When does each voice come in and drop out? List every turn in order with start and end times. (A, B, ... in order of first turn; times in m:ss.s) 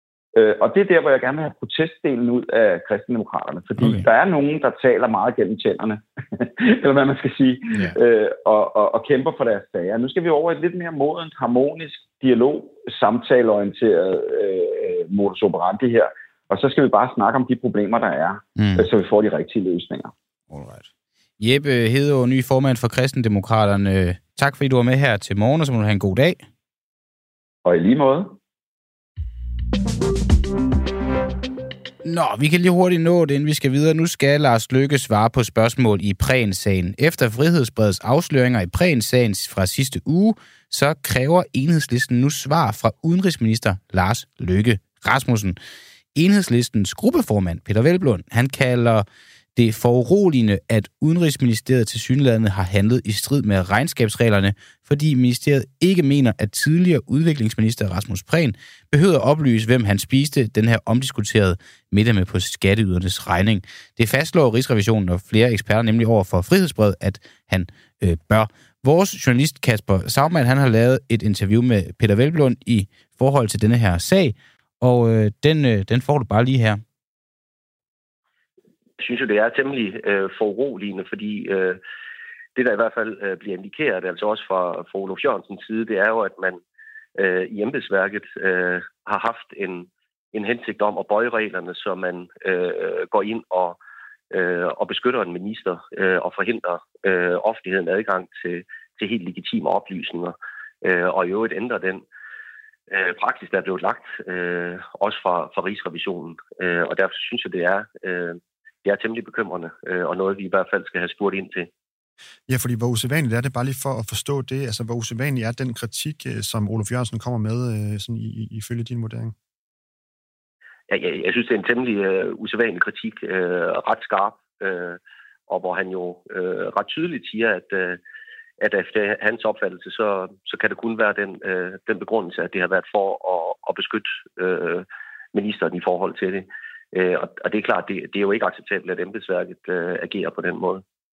0:00.3-0:20.1 A
0:03.8-0:04.0 B
0:18.6-0:18.9 B
0:20.5-0:20.9 B
0:21.4-0:26.4 B
0:27.6-0:28.4 A
0:32.0-0:45.6 B
0:46.1-0:49.0 B
0:49.6-1:16.8 B
1:19.0-1:21.8 C
1:22.6-1:26.6 C
1:27.2-1:33.8 C
1:34.3-1:42.0 C
1:42.9-1:51.7 C
1:52.5-1:59.3 D
2:00.9-2:08.0 C
2:08.6-2:20.8 C